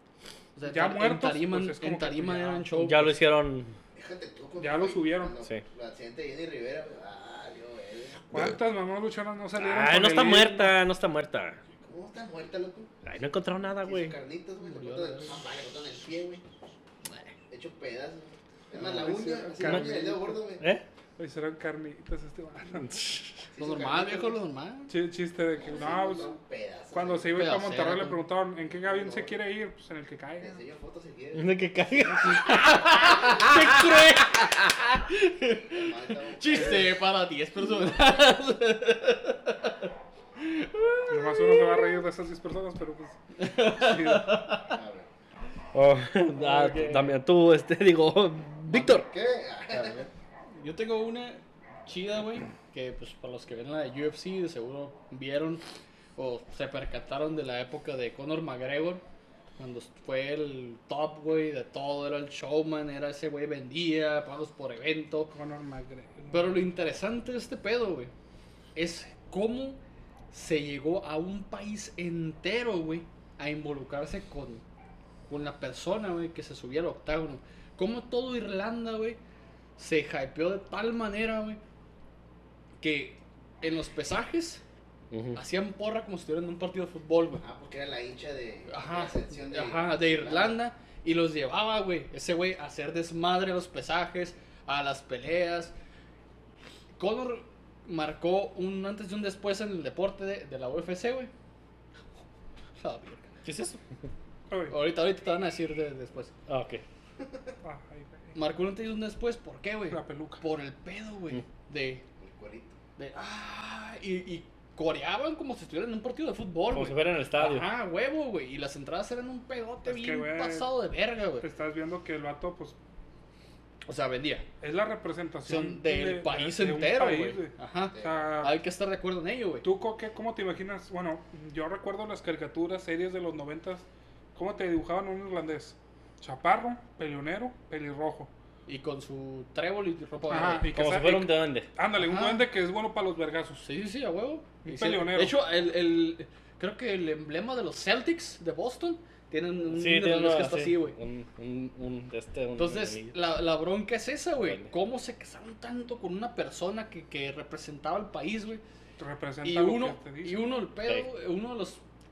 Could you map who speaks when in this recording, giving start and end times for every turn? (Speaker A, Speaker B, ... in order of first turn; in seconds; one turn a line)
Speaker A: 0.6-3.2
Speaker B: 0.7-2.7
Speaker C: 2.8-3.8
Speaker D: 4.0-8.3
Speaker B: 4.6-5.4
Speaker B: 8.3-10.8
Speaker C: 8.3-8.6
Speaker C: 9.6-11.6
Speaker D: 11.8-12.9
Speaker C: 13.0-14.2
Speaker D: 13.8-16.4
Speaker A: 14.6-15.4
Speaker D: 17.5-20.6
Speaker B: 18.8-20.4
Speaker C: 19.6-20.0
Speaker C: 20.6-20.8
Speaker B: 21.2-22.9
Speaker C: 22.8-23.4
Speaker D: 23.5-24.4
Speaker A: 23.6-24.9
Speaker B: 24.9-26.4
Speaker D: 25.6-27.6
Speaker B: 26.9-30.6
Speaker A: 27.3-28.3
Speaker D: 28.7-29.4
Speaker D: 30.4-32.4
Speaker C: 31.3-33.8
Speaker A: 32.3-42.0
Speaker D: 35.7-37.0
Speaker B: 41.1-44.5
Speaker A: 43.4-44.8
Speaker D: 44.6-45.1
Speaker C: 45.7-49.1
Speaker A: 46.4-47.2
Speaker D: 48.7-50.1
Speaker A: 49.7-55.6
Speaker A: 56.2-59.0
Speaker A: 59.6-65.3
Speaker B: 65.3-66.7
Speaker A: 66.3-68.1
Speaker A: 68.8-69.8
Speaker A: 70.3-74.6
Speaker A: 75.3-79.2
Speaker A: 79.8-81.6
Speaker A: 82.8-84.6
Speaker C: 85.1-85.4
Speaker A: 85.3-87.5
Speaker D: 87.4-90.6
Speaker A: 88.7-95.7
Speaker A: 97.0-101.3
Speaker A: 102.8-103.3
Speaker C: 103.5-103.8
Speaker B: 104.5-104.8
Speaker A: 104.7-106.3
Speaker C: 106.5-106.8
Speaker D: 107.2-107.5
Speaker B: 107.6-108.4
Speaker A: 108.3-112.0
Speaker B: 109.9-110.4
Speaker D: 112.2-112.8
Speaker A: 113.0-121.5
Speaker C: 116.7-117.7
Speaker B: 119.8-120.7
Speaker B: 121.4-122.8
Speaker A: 123.9-124.5
Speaker B: 124.6-128.6
Speaker A: 125.5-129.7
Speaker D: 127.9-128.3
Speaker B: 129.6-138.3
Speaker A: 138.7-140.7
Speaker B: 140.3-143.7
Speaker C: 140.7-141.7
Speaker A: 142.0-142.5
Speaker A: 143.6-151.0
Speaker B: 144.6-145.4
Speaker C: 149.7-153.1
Speaker A: 152.6-158.6
Speaker C: 154.4-154.7
Speaker B: 159.0-160.6
Speaker A: 159.4-161.8